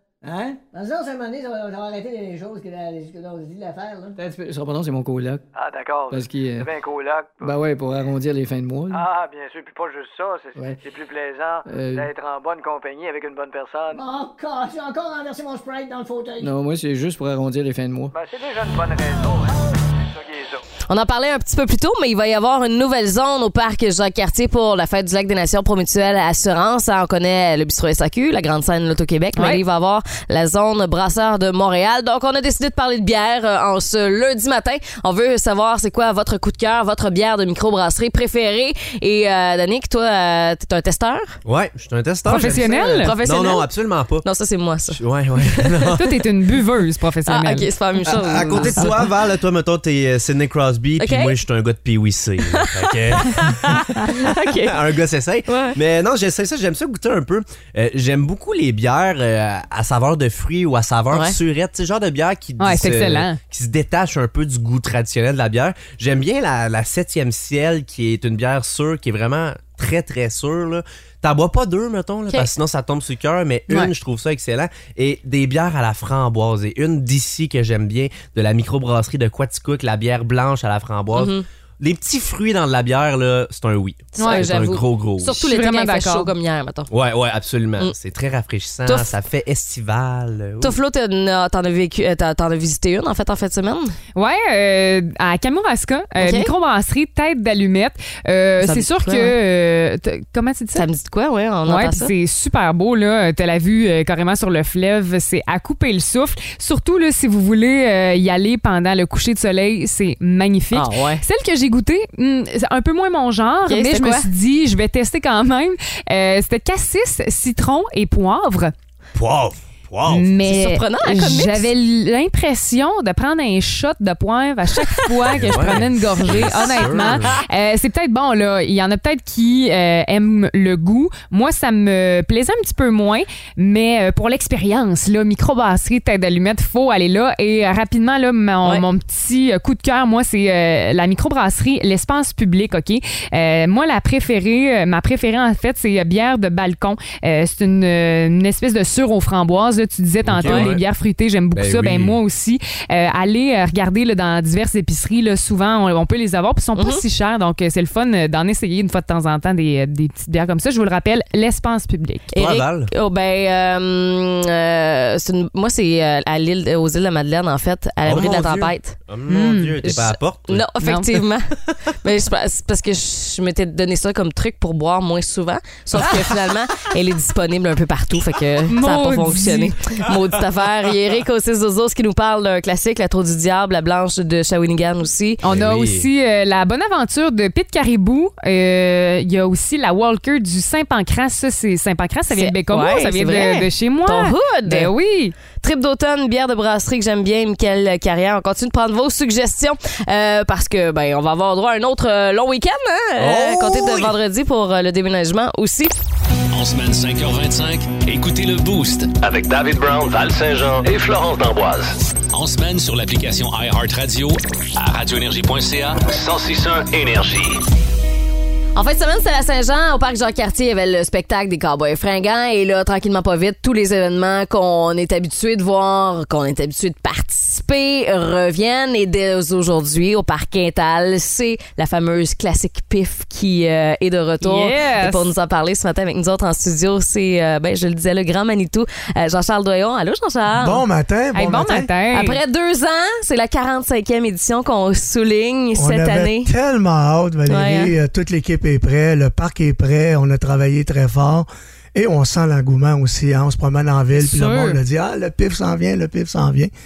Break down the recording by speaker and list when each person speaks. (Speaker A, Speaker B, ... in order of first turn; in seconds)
Speaker A: 0.2-0.6, 4.2-5.4, 6.1-6.7, 7.4-9.0, 11.7-12.1, 16.4-18.1
Speaker B: 0.7-4.2, 13.9-16.5
Speaker C: 5.5-7.5, 8.9-14.0, 18.1-20.6
Speaker D: 20.9-41.4, 42.4-45.9, 47.2-48.9, 51.0-51.4, 52.5-54.9, 55.5-55.8, 81.2-81.4, 84.2-86.9, 88.8-89.2, 90.6-93.9, 96.2-96.5, 98.6-99.4, 100.8-102.1, 110.7-111.2, 113.7-114.3, 120.4-121.7, 124.8-127.3, 150.4-150.8, 156.8-157.0, 162.3-169.0, 169.8-185.4, 192.3-194.9, 195.5-205.9, 218.8-240.8, 242.1-246.5, 247.5-247.9
Speaker E: 29.3-29.6, 42.2-43.1, 45.9-48.0, 48.6-49.1, 62.6-63.4, 84.2-84.5, 85.3-86.3, 94.1-100.9, 101.6-118.7, 120.1-162.3, 169.3-169.9, 170.8-171.1, 178.7-179.8, 185.4-195.4, 234.4-235.3, 241.3-242.4, 254.1-254.8
Speaker F: 41.5-44.3, 44.8-46.2, 48.0-53.8, 54.7-85.4, 86.9-90.8, 119.1-120.3, 125.3-127.4, 150.2-150.8, 151.5-152.2, 162.3-162.9, 168.0-170.8, 185.4-186.1, 203.2-204.1
Speaker G: 206.5-209.1, 212.3-216.0
Speaker H: 209.2-211.9, 216.1-217.6
Speaker I: 240.5-241.9, 245.8-256.7